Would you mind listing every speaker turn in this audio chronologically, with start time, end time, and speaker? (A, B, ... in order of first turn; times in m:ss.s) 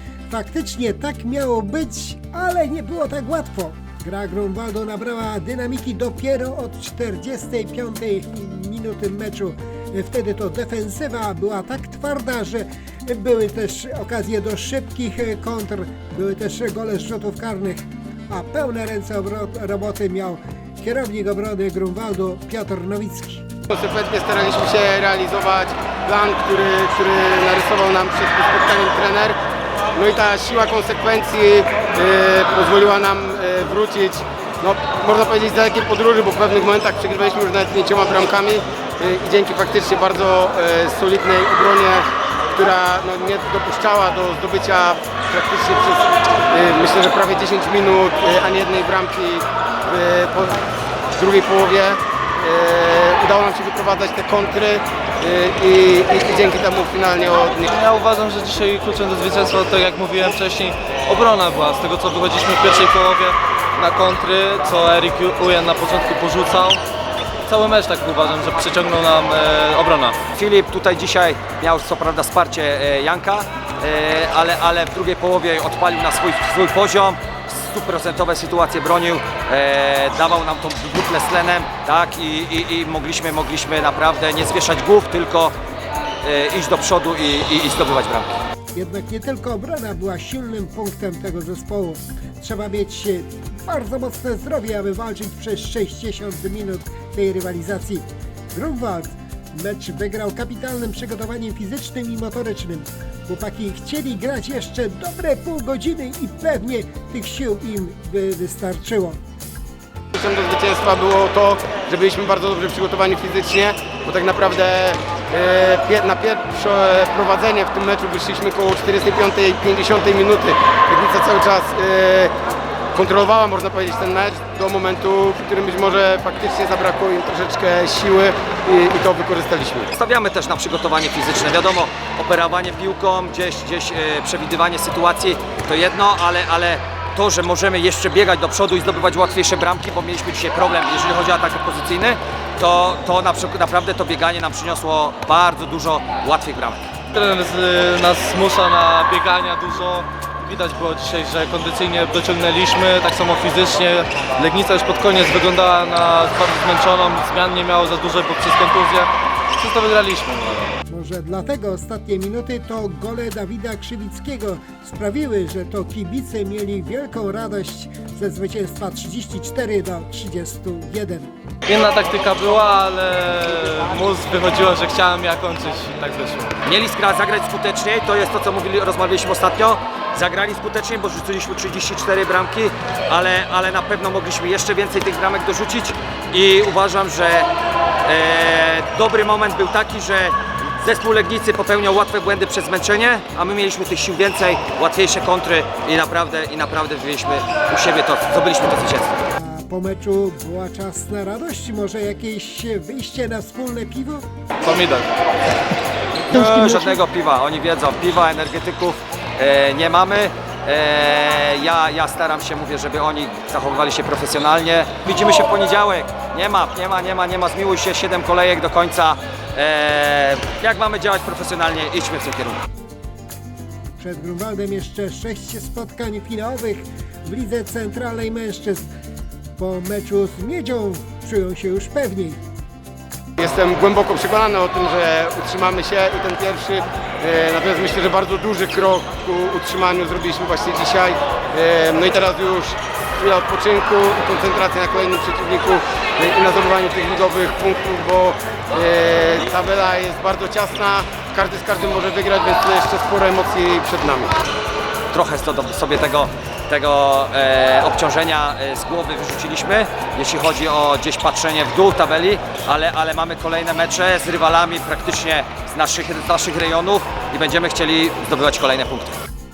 0:00.3-0:23.5 A
0:23.7-0:29.4 B
0:29.9-0:57.7 B
0:57.7-1:06.8 C
1:07.5-1:10.2 C
1:10.3-1:25.6 D
1:26.2-1:28.3 D
1:28.8-1:49.2 A
1:50.1-2:02.3 B
2:02.9-2:09.9 B
2:09.9-2:26.9 D
2:27.1-2:40.8 C
2:40.9-2:51.3 A
2:51.7-2:56.6 C
2:56.6-3:07.5 D
3:08.0-3:19.2 D
3:19.4-3:24.3 A
3:24.6-3:25.1 C
3:26.3-3:42.6 D
3:26.3-3:27.0 A
3:44.0-3:48.9 A
3:49.6-3:52.4 A
3:53.4-4:14.3 B
4:15.1-4:29.2 D